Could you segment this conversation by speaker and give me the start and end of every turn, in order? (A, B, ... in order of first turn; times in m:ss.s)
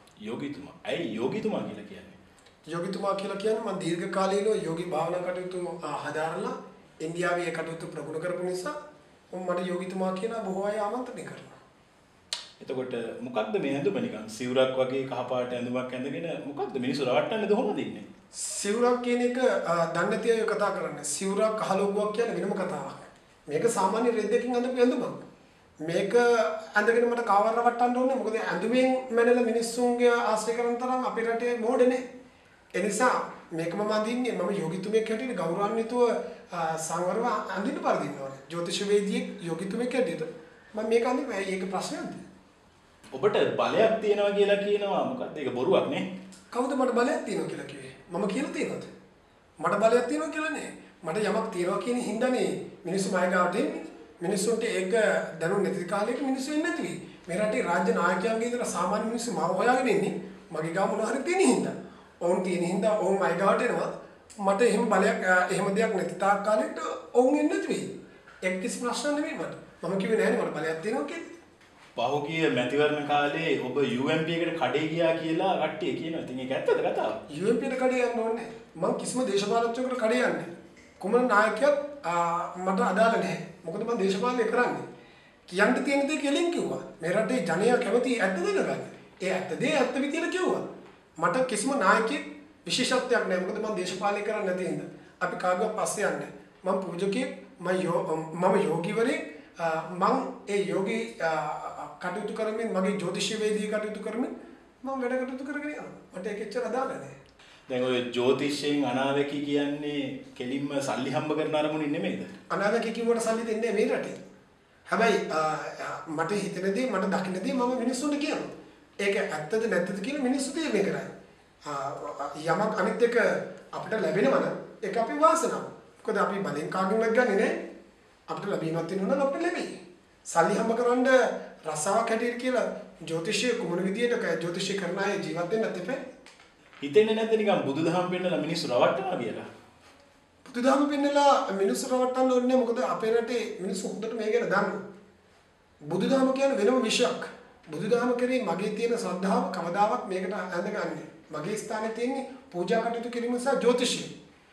0:00.2-0:02.2 A
0:02.7-0:08.7 B
0:09.3-0:11.6 B
0:12.6-0:18.0 A
0:18.4-0:25.2 B
0:25.8-0:32.0 B
0:32.8-0:42.2 B
0:43.2-0:46.0 A
0:46.5-0:48.9 B
0:49.6-1:03.9 B
1:04.4-1:07.9 B
1:08.4-1:11.2 B
1:12.0-1:17.2 A
1:17.3-1:20.5 B
1:21.0-1:24.8 B
1:25.5-1:30.6 B
1:31.2-1:47.2 B
1:47.7-1:52.3 A
1:52.5-1:54.2 B
1:54.9-1:58.5 B
1:59.0-2:01.1 B
2:01.6-2:07.6 B
2:08.3-2:09.7 B
2:10.3-2:16.0 B
2:16.8-2:19.5 A
2:20.4-2:24.8 B
2:25.9-2:34.1 B